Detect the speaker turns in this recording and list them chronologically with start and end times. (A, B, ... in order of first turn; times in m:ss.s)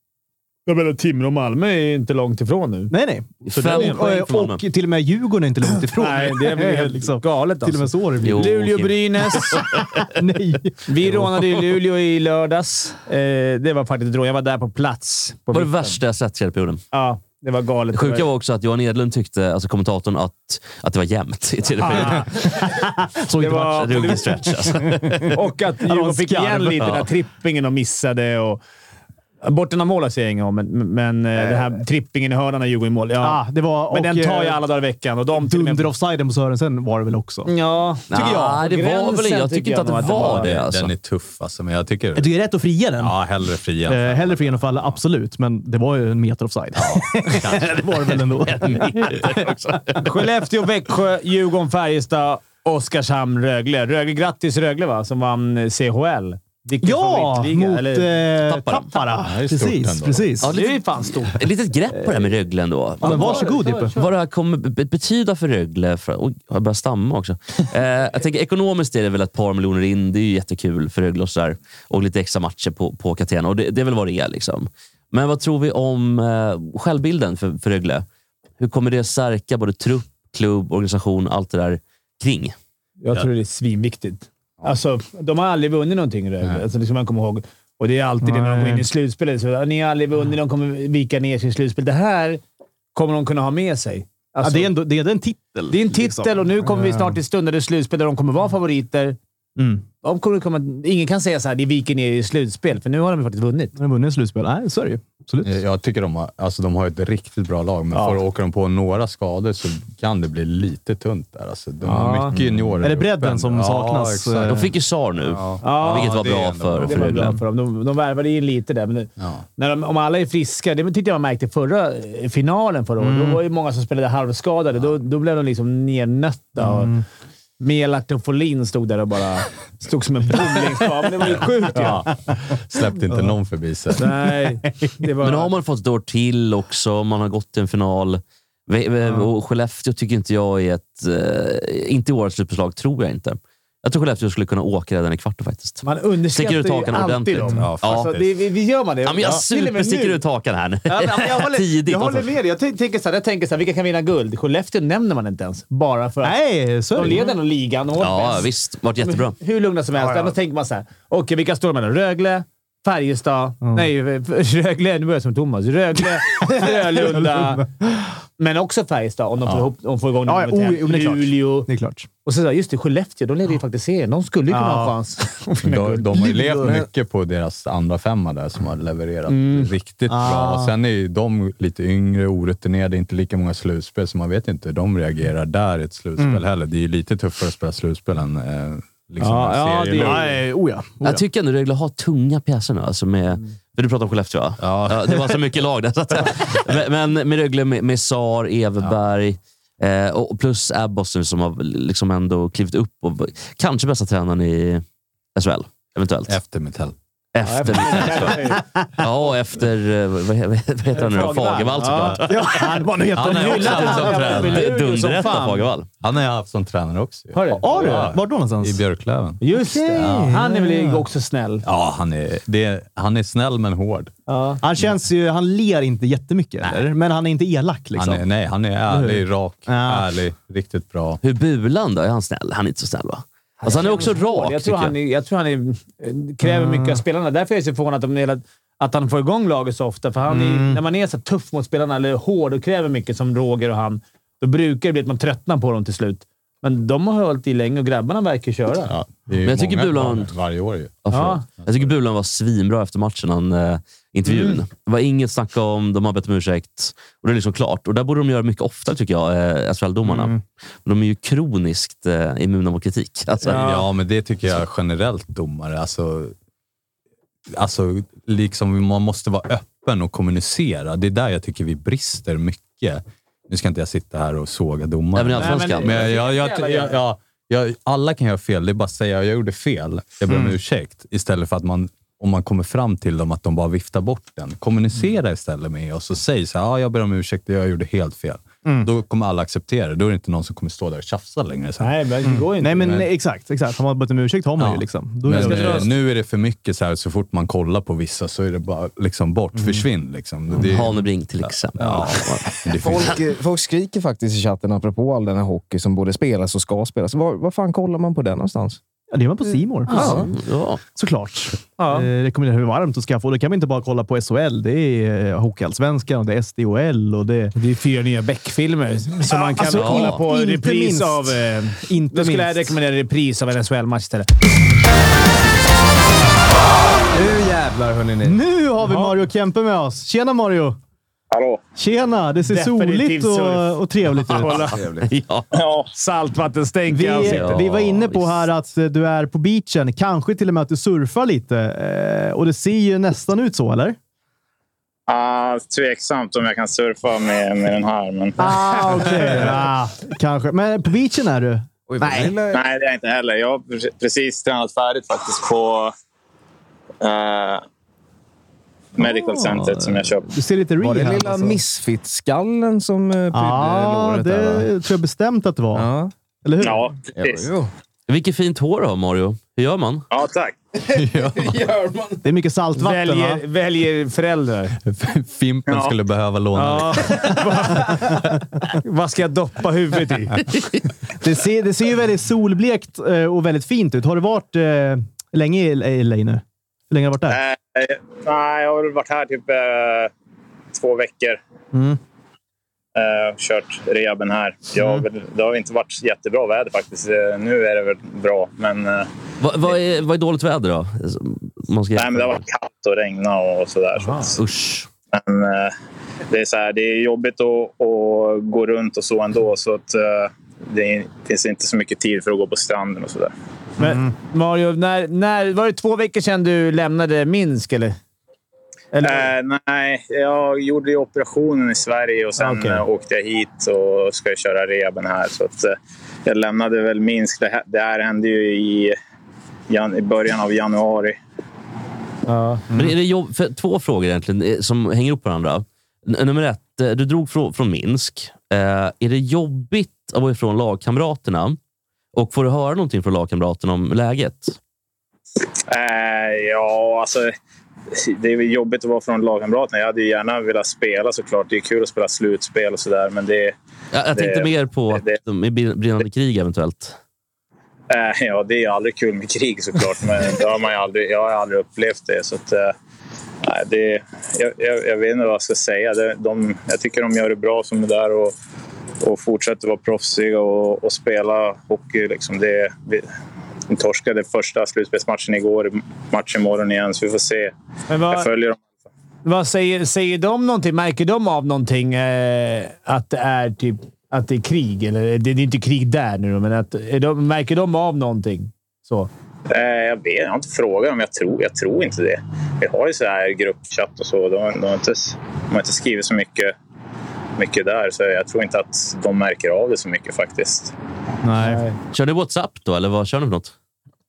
0:00.7-0:02.9 A
0:02.9-0:08.6 B
0:03.5-0:04.6 C
0:03.5-0:04.0 A
0:05.9-0:09.6 A
0:08.2-0:09.8 C
0:09.5-0:10.9 B
0:10.9-0:16.0 A
0:15.5-0:16.8 C
0:16.9-0:18.3 A
0:17.9-0:22.6 C
0:21.8-0:22.6 A
0:22.6-0:27.0 B
0:23.4-0:24.3 A
0:23.5-0:25.4 C
0:25.3-0:28.6 A
0:26.8-0:27.1 C
0:29.4-0:35.9 A
0:33.2-0:34.6 B
0:35.4-0:37.5 B
0:37.5-0:40.6 A
0:38.1-0:40.9 C
0:40.3-0:42.3 D
0:42.2-0:43.2 B
0:43.0-0:45.0 D
0:43.9-0:49.3 B
0:46.9-0:47.8 D
0:48.4-0:50.0 C
0:50.0-0:58.1 A
0:56.8-1:00.5 B
0:58.5-0:58.9 C
0:59.2-1:00.3 D
1:00.4-1:18.1 C
1:00.5-1:01.4 A
1:03.0-1:04.0 B
1:03.0-1:04.1 A
1:18.6-1:22.6 C
1:23.0-1:32.4 A
1:28.2-1:28.9 B
1:32.9-1:34.7 A
1:34.4-1:37.2 B
1:35.7-1:39.2 A
1:39.6-1:39.8 B
1:40.0-1:43.8 A
1:43.8-1:45.6 B
1:45.4-1:54.7 D
1:47.9-1:48.2 A
1:51.8-1:52.4 A
1:52.8-1:54.7 B
1:54.5-1:57.4 C
1:55.2-1:57.3 D
1:55.6-2:07.0 A
1:59.2-1:59.4 D
2:03.0-2:03.4 B
2:06.6-2:07.0 B
2:07.6-2:12.1 A
2:11.4-2:14.2 D
2:14.0-2:15.5 A
2:15.2-2:28.1 C
2:25.8-2:30.2 A
2:27.5-2:28.3 D
2:29.0-2:32.3 C
2:30.9-2:36.4 A
2:36.2-2:37.3 B
2:36.9-2:38.5 A
2:38.0-2:39.4 C
2:39.0-2:47.7 A
2:40.0-2:40.3 B
2:43.6-2:43.9 B
2:46.6-2:48.0 B
2:48.4-2:51.7 A
2:50.3-2:52.1 B
2:52.2-2:56.6 A
2:54.5-2:55.0 B
2:55.6-3:10.3 D
2:56.2-2:56.8 B
2:59.3-2:59.7 A
3:00.1-3:00.7 B
3:09.2-3:10.3 A
3:10.0-3:11.2 B
3:11.0-3:24.8 C
3:14.6-3:15.3 D
3:25.4-3:26.3 C
3:26.3-3:27.0 D
3:27.3-3:32.6 C
3:27.4-3:28.6 A
3:31.0-3:32.3 A
3:32.2-3:34.4 B
3:33.1-3:34.7 D
3:33.2-3:35.7 A
3:33.6-3:35.9 C
3:36.0-3:39.4 D
3:37.3-3:38.1 A
3:37.6-3:38.8 B
3:39.4-3:41.6 A
3:39.6-3:41.0 B
3:39.9-3:40.4 D
3:41.6-3:44.1 D
3:44.3-3:44.6 A
3:44.6-3:48.2 B
3:48.0-3:51.2 D
3:48.9-3:50.1 B
3:51.2-3:54.9 C
3:53.6-4:09.0 A
3:56.4-3:57.0 B
4:00.3-4:00.8 B
4:08.9-4:11.9 D
4:09.4-4:10.3 C
4:11.0-4:23.7 C
4:11.1-4:11.4 A
4:14.3-4:14.6 A
4:23.5-4:23.9 A
4:23.5-4:26.3 D
4:27.5-4:52.0 D
4:35.2-4:36.2 C
4:35.4-4:37.0 A
4:40.3-4:40.6 B
4:51.8-4:53.0 A
4:52.3-4:55.9 B
4:54.6-5:03.2 D
4:55.3-4:55.9 A
4:59.6-4:59.8 B
5:00.6-5:03.2 C
5:02.8-5:08.8 E
5:09.1-5:10.3 B
5:09.9-5:10.8 C
5:09.9-5:10.2 A
5:10.0-5:10.2 E
5:11.0-5:17.6 B
5:11.8-5:12.1 A
5:17.6-5:24.3 A
5:19.3-5:22.8 B
5:19.7-5:20.2 C
5:27.1-5:28.4 E
5:28.2-5:30.8 B
5:28.8-5:29.1 A
5:31.3-5:31.6 F
5:31.8-5:34.8 B
5:32.5-5:34.8 A
5:34.6-5:35.1 E
5:35.1-5:35.5 C
5:35.5-5:35.9 F
5:35.9-5:37.6 A
5:36.9-5:44.0 B
5:37.2-5:38.5 C
5:45.1-5:48.5 F
5:48.4-5:52.3 B
5:51.9-5:52.6 E
5:52.5-5:55.9 F
5:57.0-5:57.6 F
5:59.0-6:00.3 F
5:59.0-6:01.6 B
6:00.8-6:04.7 E
6:03.3-6:05.9 B
6:05.7-6:06.1 E
6:06.4-6:06.9 B
6:06.6-6:07.5 F
6:07.2-6:07.7 E
6:08.1-6:10.1 C
6:10.1-6:10.6 F
6:10.9-6:12.2 E
6:11.0-6:11.6 D
6:12.2-6:13.4 B
6:12.8-6:14.8 A
6:14.8-6:18.1 D
6:15.7-6:15.9 F
6:16.6-6:18.1 A
6:18.7-6:20.5 A
6:21.2-6:27.4 B
6:27.3-6:30.1 F
6:30.7-6:31.4 F
6:31.7-6:32.0 B
6:33.0-6:39.1 F
6:39.4-6:42.4 C
6:42.0-6:44.4 F
6:44.3-6:44.9 C
6:45.1-6:45.7 F
6:46.3-6:53.3 F
6:53.8-6:58.0 A
6:53.8-6:54.1 B
6:58.9-6:59.3 A
6:59.0-7:09.0 F
7:02.4-7:02.8 A
7:09.7-7:11.2 F
7:12.3-7:12.6 A
7:12.7-7:21.6 C
7:22.1-7:24.6 C
7:25.7-7:27.3 F
7:27.9-7:33.6 F
7:33.9-7:37.0 C
7:34.1-7:35.2 F
7:37.9-7:42.7 F
7:43.4-7:48.4 F
7:49.0-7:53.1 F
7:53.7-7:57.5 F
7:57.9-7:58.3 A
7:58.1-7:58.6 F
7:59.2-8:09.1 A
8:09.5-8:16.5 F
8:17.4-8:20.7 F
8:21.2-8:21.6 B
8:21.4-8:21.8 A
8:21.9-8:23.5 C